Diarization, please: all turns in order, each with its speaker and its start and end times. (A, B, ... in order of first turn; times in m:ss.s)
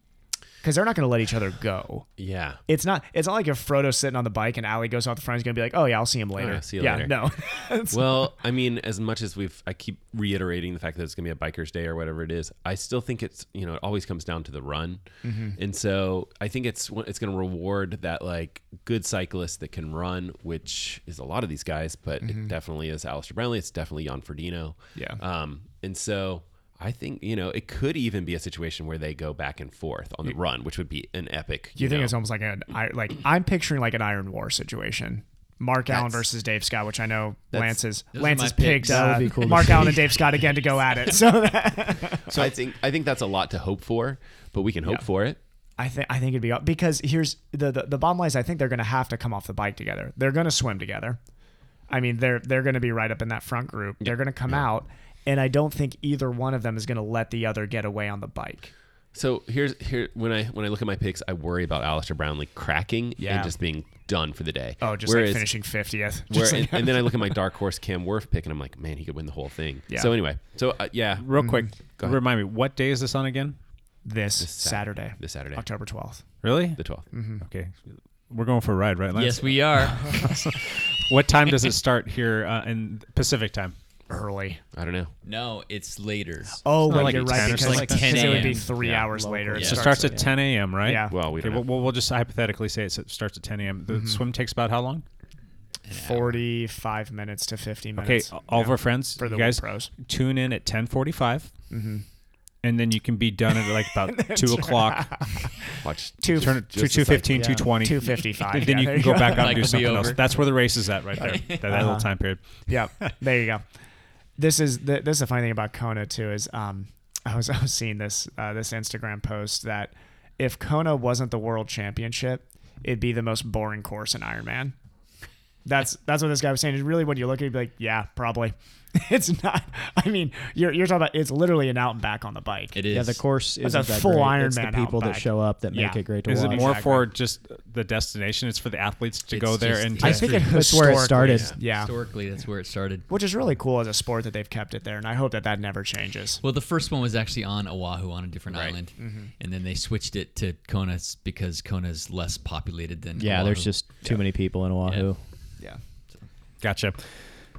0:00.6-0:02.1 A
0:02.2-0:02.6 B
0:02.7-0:08.3 A
0:06.4-0:07.4 B
0:07.9-0:32.2 B
0:15.2-0:15.6 A
0:22.2-0:22.5 A
0:24.9-0:25.2 A
0:31.8-0:42.5 A
0:35.9-0:36.2 B
0:38.1-0:39.9 C
0:38.8-0:40.1 D
0:42.3-0:45.4 B
0:45.8-0:51.2 A
0:51.9-0:58.7 A
0:54.0-0:54.6 B
0:59.1-1:11.3 B
1:03.2-1:03.6 A
1:04.8-1:07.4 A
1:09.9-1:10.2 A
1:11.2-1:13.6 E
1:11.4-1:11.8 A
1:11.8-1:12.2 B
1:14.0-1:16.2 A
1:14.4-1:15.6 B
1:16.4-1:23.8 E
1:16.6-1:17.1 B
1:17.1-1:17.4 A
1:19.1-1:20.1 C
1:24.1-1:24.6 A
1:24.7-1:25.1 B
1:25.2-1:28.7 C
1:26.6-1:31.3 A
1:26.8-1:28.7 E
1:29.1-1:30.2 D
1:29.6-1:35.0 E
1:31.1-1:31.7 B
1:33.9-1:34.2 A
1:35.9-1:36.4 C
1:35.9-1:39.9 A
1:38.0-1:41.5 E
1:41.7-1:42.0 A
1:42.6-1:45.2 E
1:43.8-1:46.6 A
1:45.8-1:47.6 B
1:46.3-1:53.2 E
1:47.4-1:47.6 D
1:47.7-1:50.0 A
1:49.2-1:50.5 C
1:51.2-1:51.6 C
1:51.4-1:52.1 A
1:52.7-1:53.6 A
1:54.4-2:04.7 A
2:05.6-2:12.8 A
2:12.7-2:13.2 C
2:12.9-2:16.7 D
2:13.6-2:17.0 A
2:16.3-2:20.5 E
2:19.3-2:23.1 C
2:20.0-2:21.9 A
2:20.5-2:21.5 D
2:21.3-2:21.5 B
2:23.1-2:26.4 A
2:26.4-2:33.8 C
2:28.5-2:28.8 B
2:29.0-2:29.3 A
2:33.2-2:35.2 D
2:36.6-2:37.0 E